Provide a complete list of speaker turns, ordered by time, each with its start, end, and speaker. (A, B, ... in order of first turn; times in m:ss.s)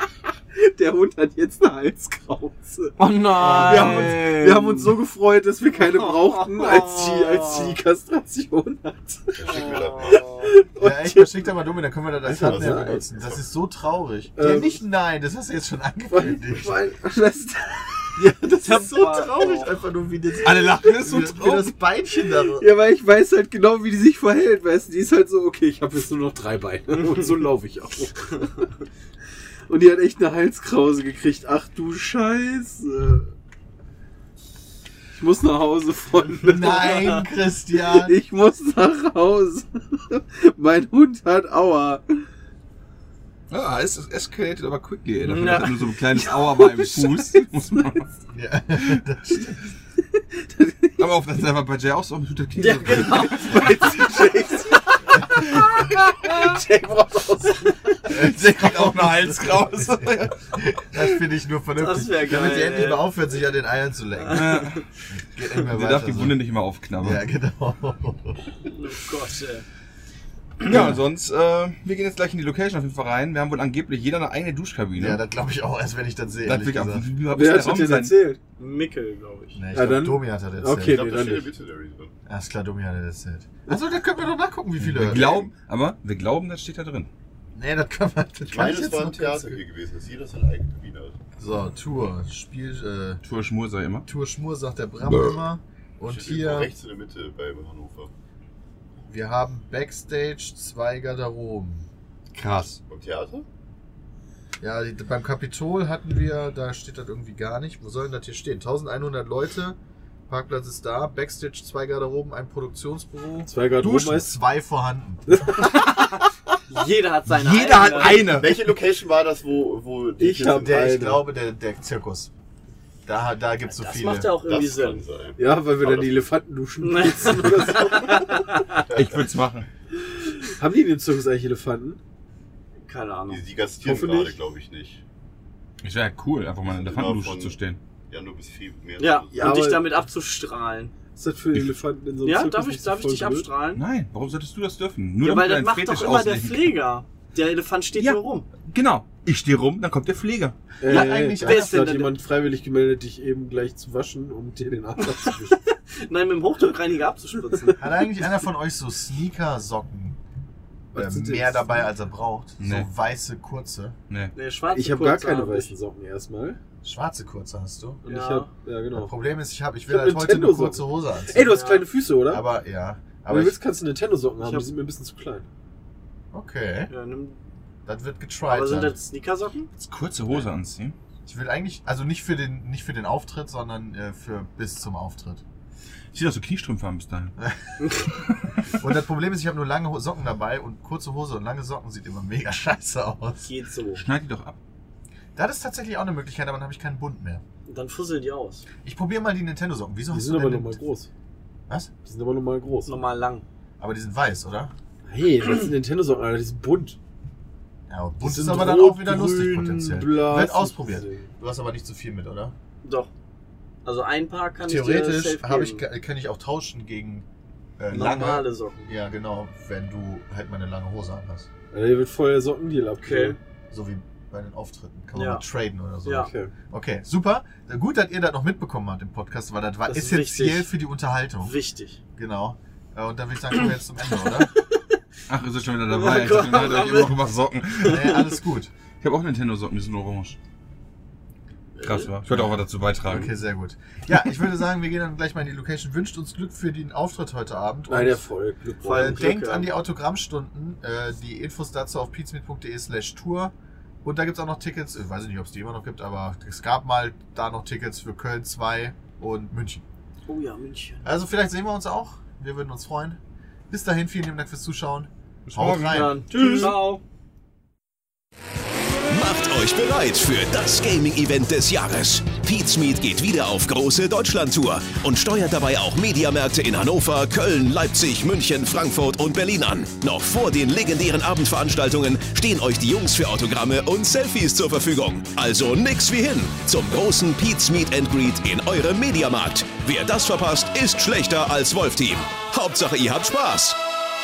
0:00.5-0:11.5 A
0:03.0-0:04.6 B
0:03.1-0:04.3 C
0:03.3-0:04.3 D
0:05.8-0:07.8 C
0:09.4-0:10.3 E
0:09.5-0:10.5 C
0:10.8-0:16.8 D
0:12.2-0:13.0 A
0:12.4-0:13.4 E
0:14.4-0:14.8 A
0:16.1-0:18.2 A
0:18.2-0:22.7 D
0:18.6-0:19.7 C
0:20.4-0:21.7 B
0:22.6-0:28.5 A
0:27.0-0:27.4 C
0:29.7-0:33.3 A
0:35.2-0:37.2 A
0:36.4-0:38.2 D
0:38.0-0:42.2 A
0:43.5-0:48.2 B
0:45.2-0:45.9 C
0:46.5-0:47.5 A
0:48.3-0:49.6 D
0:48.8-0:49.0 B
0:50.3-0:51.0 A
0:51.0-0:53.6 B
0:52.6-0:54.0 C
0:53.1-0:54.9 A
0:56.2-0:57.7 A
0:58.1-1:04.6 D
0:58.1-1:00.6 B
1:01.8-1:03.1 C
1:04.3-1:04.8 B
1:05.1-1:06.4 D
1:05.7-1:07.2 B
1:07.0-1:08.5 D
1:08.7-1:09.6 C
1:10.6-1:15.2 B
1:10.7-1:11.0 D
1:15.0-1:17.1 D
1:16.4-1:18.2 B
1:17.3-1:18.4 A
1:18.6-1:19.6 C
1:19.6-1:21.1 D
1:19.7-1:21.5 A
1:20.8-1:22.1 E
1:22.3-1:25.5 D
1:24.8-1:27.1 B
1:27.6-1:29.6 D
1:28.5-1:31.2 E
1:31.4-1:33.2 D
1:33.2-1:34.1 B
1:34.0-1:36.7 D
1:36.0-1:38.1 E
1:39.1-1:41.9 D
1:42.3-1:42.8 B
1:42.9-1:43.5 E
1:44.6-1:49.8 D
1:50.3-1:55.5 D
1:53.5-1:54.3 A
1:55.6-1:56.3 B
1:56.7-1:58.3 C
1:57.3-1:58.8 B
1:58.1-2:00.8 E
2:00.2-2:01.2 A
2:00.6-2:02.3 D
2:03.1-2:04.3 D
2:03.7-2:05.0 C
2:04.4-2:06.3 E
2:05.4-2:08.4 A
2:06.8-2:08.9 C
2:08.9-2:09.7 B
2:10.5-2:12.0 A
2:12.9-2:14.2 C
2:13.3-2:15.0 E
2:13.8-2:14.3 A
2:15.8-2:17.8 B
2:16.7-2:17.6 E
2:18.1-2:19.7 E
2:19.0-2:20.9 C
2:19.4-2:19.9 A
2:21.2-2:23.5 A
2:22.2-2:23.8 C
2:23.8-2:26.8 B
2:25.2-2:28.5 C
2:28.0-2:30.6 B
2:30.8-2:35.6 A
2:30.8-2:31.8 D
2:30.9-2:32.2 C
2:35.2-2:37.8 C
2:37.8-2:40.2 D
2:40.9-2:41.9 A
2:41.0-2:44.0 D
2:42.6-2:42.9 B
2:44.4-2:45.7 C
2:44.7-2:46.6 A
2:46.8-2:48.0 D
2:48.0-2:49.1 A
2:48.1-2:48.5 C
2:48.9-2:51.5 D
2:49.9-2:52.5 A
2:51.5-2:51.9 C
2:52.3-2:53.6 D
2:53.3-2:55.5 A
2:54.4-2:54.7 C
2:56.3-2:56.9 D
2:56.9-2:57.4 C
2:57.9-2:59.0 D
2:58.5-2:59.7 C
2:59.8-3:01.0 B
3:01.2-3:05.4 D
3:06.1-3:07.4 B
3:07.4-3:07.7 D
3:07.8-3:08.1 C
3:08.3-3:08.6 B
3:08.8-3:13.5 D
3:13.4-3:14.0 C
3:14.0-3:14.6 B
3:15.4-3:17.4 D
3:17.7-3:18.7 C
3:18.8-3:20.8 D
3:20.1-3:21.1 A
3:22.0-3:23.0 A
3:22.9-3:23.4 C
3:23.8-3:24.7 D
3:25.1-3:27.0 A
3:27.9-3:32.6 D
3:28.2-3:31.3 A
3:32.8-3:33.1 C
3:33.8-3:35.8 C
3:34.6-3:37.3 D
3:37.8-3:41.5 D
3:37.9-3:38.9 C
3:41.7-3:43.4 A
3:43.0-3:43.4 C
3:43.7-3:51.5 D
3:45.1-3:45.4 C
3:46.0-3:46.3 C
3:46.1-3:46.5 A
3:49.9-3:50.7 C
3:51.4-3:52.0 C
3:52.2-3:54.5 D
3:54.2-3:54.9 C
3:55.3-3:58.2 B
3:55.9-3:57.2 C
3:57.8-3:58.2 C
3:57.9-3:58.7 D
3:59.0-4:00.4 B
4:01.8-4:02.1 C
4:01.8-4:03.3 B
4:02.3-4:08.2 D
4:07.9-4:09.2 A
4:08.8-4:09.7 C
4:08.9-4:19.8 D
4:20.3-4:21.0 C
4:21.0-4:23.2 D
4:23.7-4:26.2 D
4:25.5-4:26.8 B
4:25.9-4:27.0 C
4:26.3-4:26.7 A
4:29.1-4:53.8 F